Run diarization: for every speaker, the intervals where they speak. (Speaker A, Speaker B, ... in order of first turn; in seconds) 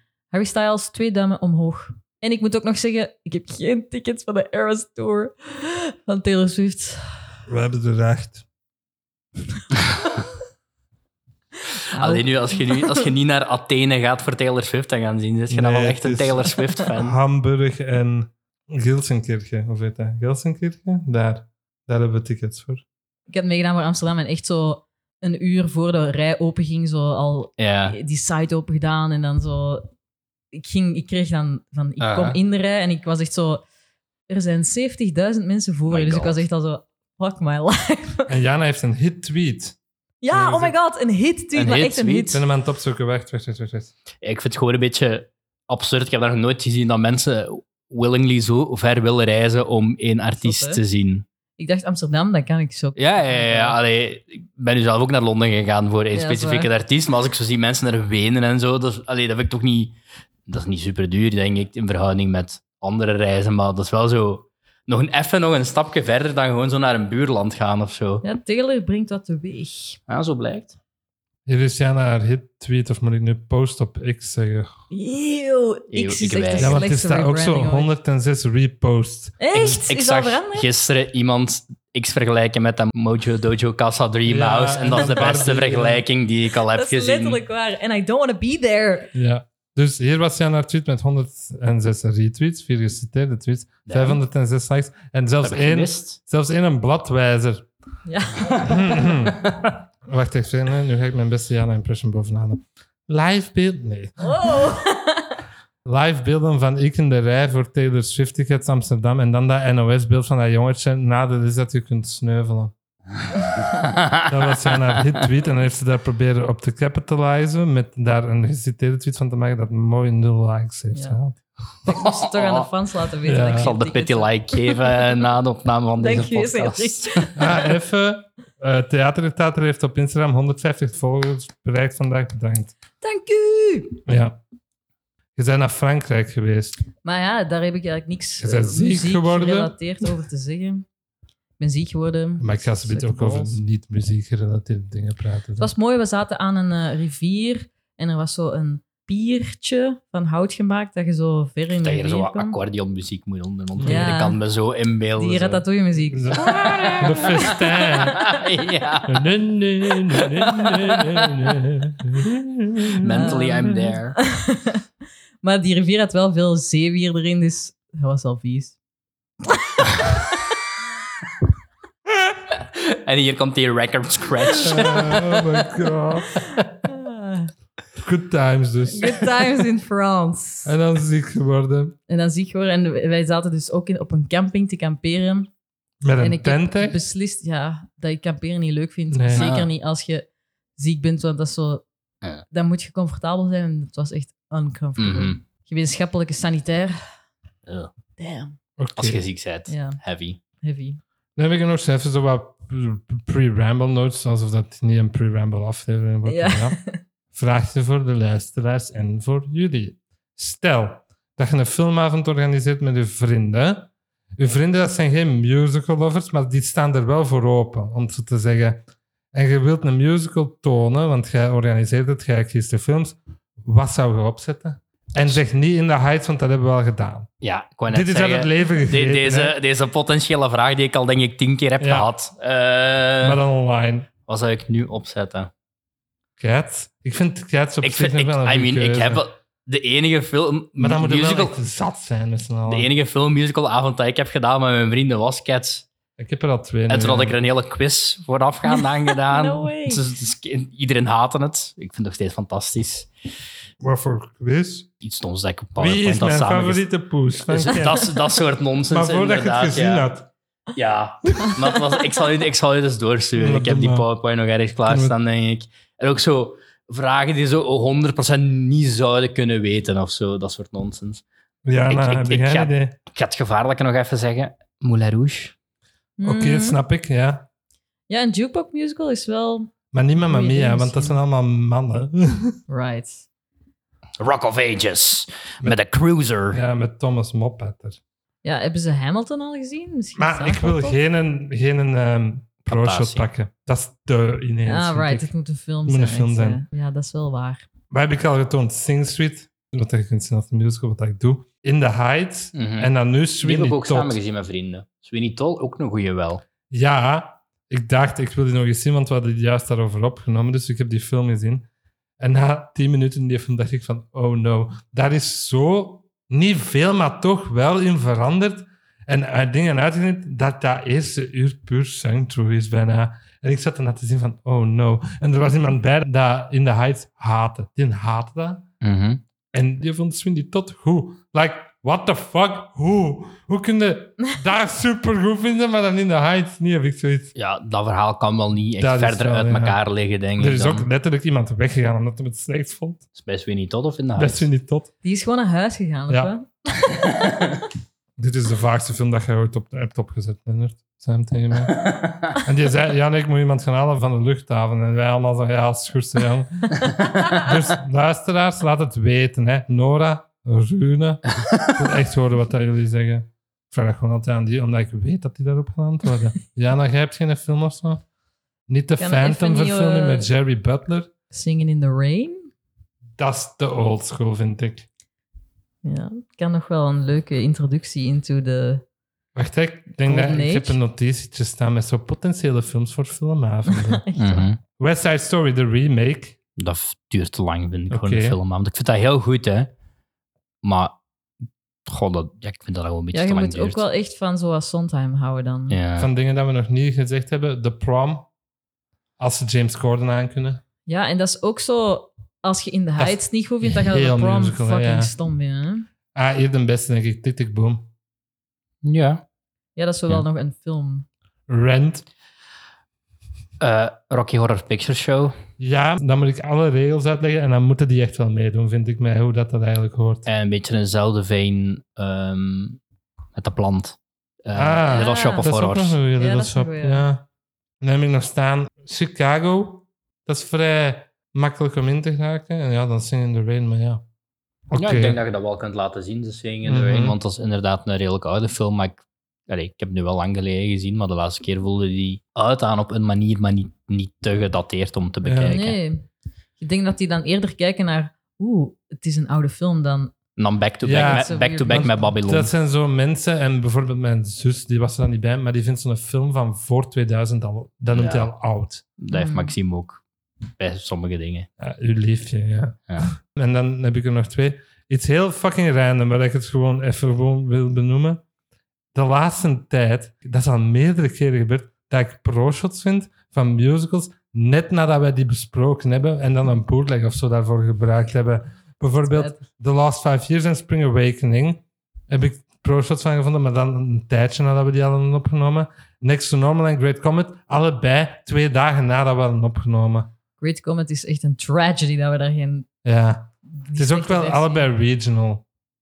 Speaker A: 0.3-7.2, 11.9-13.0, 23.3-29.9, 30.5-33.6, 34.3-38.3, 40.2-42.4, 50.4-50.8, 51.6-53.8, 56.1-56.7, 68.2-70.0, 74.9-77.9, 79.4-80.7, 86.7-89.1, 98.0-98.9, 104.2-105.3, 120.9-121.2, 121.8-125.2, 126.0-127.7, 133.0-134.0, 137.0-140.8, 141.6-143.6, 145.6-152.6, 153.8-154.4, 155.2-157.9, 163.2-164.8, 165.4-168.8, 169.5-170.4, 176.8-177.5, 178.9-180.7, 182.1-185.5, 186.2-191.8, 192.5-197.1, 198.2-198.6, 199.7-200.0, 200.6-201.0, 206.2-207.0, 248.7-250.0, 276.2-276.8, 278.1-279.7, 280.2-281.2, 282.7-283.2, 288.4-291.0, 294.7-297.7, 345.0-347.1, 369.0-370.3, 371.3-372.5, 375.8-378.8, 380.1-380.8, 383.7-384.5, 393.1-395.8, 400.9-405.9, 409.8-411.1, 424.9-425.5, 426.2-427.0, 445.4-446.1, 446.6-450.1, 450.9-452.2, 459.1-459.5, 479.1-479.4, 490.4-492.7, 493.5-494.7
Speaker B: 7.5-8.4, 15.5-22.8, 38.3-39.8, 40.3-40.7, 42.3-43.9, 71.5-74.8, 76.6-79.4, 84.2-86.0, 89.1-97.7, 98.6-104.4, 105.8-112.7, 114.2-121.4, 123.2-123.7, 127.4-132.8, 134.1-134.4, 135.4-136.8, 138.4-139.7, 142.4-145.7, 153.8-154.1, 156.1-158.2, 159.1-163.9, 174.6-176.4, 178.0-179.5, 180.7-182.0, 186.0-187.0, 189.1-189.5, 198.8-199.2, 201.3-206.8, 207.3-227.3, 227.9-229.6, 231.8-232.1, 233.2-234.1, 236.4-239.2, 240.8-242.9, 246.2-247.4, 253.8-254.9, 255.8-258.1, 258.9-260.3, 261.4-261.7, 263.4-264.1, 264.9-265.1, 271.7-273.0, 276.2-277.5, 279.9-282.6, 286.5-288.0, 290.2-295.3, 295.9-296.6, 297.9-304.2, 306.7-311.7, 312.2-328.7, 329.5-337.3, 338.8-339.8, 340.4-343.0, 344.1-344.9, 348.2-351.8, 352.4-368.0, 368.7-371.1, 373.2-374.9, 379.4-384.0, 384.8-386.4, 387.9-388.4, 396.0-398.3, 399.2-400.6, 403.0-405.1, 406.1-407.9, 411.5-412.0, 415.6-420.2, 424.5-427.2, 427.8-434.0, 434.7-435.2, 436.7-437.2, 445.2-445.6, 450.8-458.8, 461.6-468.2, 468.9-490.1, 492.8-495.4
Speaker C: 11.9-17.2, 27.6-28.0, 32.0-32.4, 35.9-36.4, 41.5-42.4, 44.2-51.2, 53.0-60.0, 60.5-68.2, 70.1-70.8, 75.9-76.8, 79.5-87.4, 93.9-94.2, 95.4-96.2, 113.7-114.3, 121.9-122.7, 123.5-127.3, 151.8-155.6, 156.4-159.2, 160.2-161.4, 163.0-164.2, 172.5-175.7, 189.3-189.7, 195.0-195.4, 199.0-200.4, 227.4-233.4, 234.3-235.5, 237.8-241.5, 242.7-245.8, 246.9-253.1, 255.0-256.8, 257.5-260.1, 260.8-271.2, 271.9-275.5, 284.2-286.6, 292.7-293.3, 302.5-302.9, 303.4-306.4, 328.8-329.2, 337.3-340.9, 343.1-344.5, 351.8-352.3, 384.2-384.6, 386.6-389.7, 390.6-390.9, 391.9-393.8, 395.7-396.1, 408.8-409.2, 413.6-415.4, 420.2-422.8, 423.3-426.0, 434.8-445.8, 450.4-452.5, 457.9-458.3, 459.0-460.0, 460.6-461.5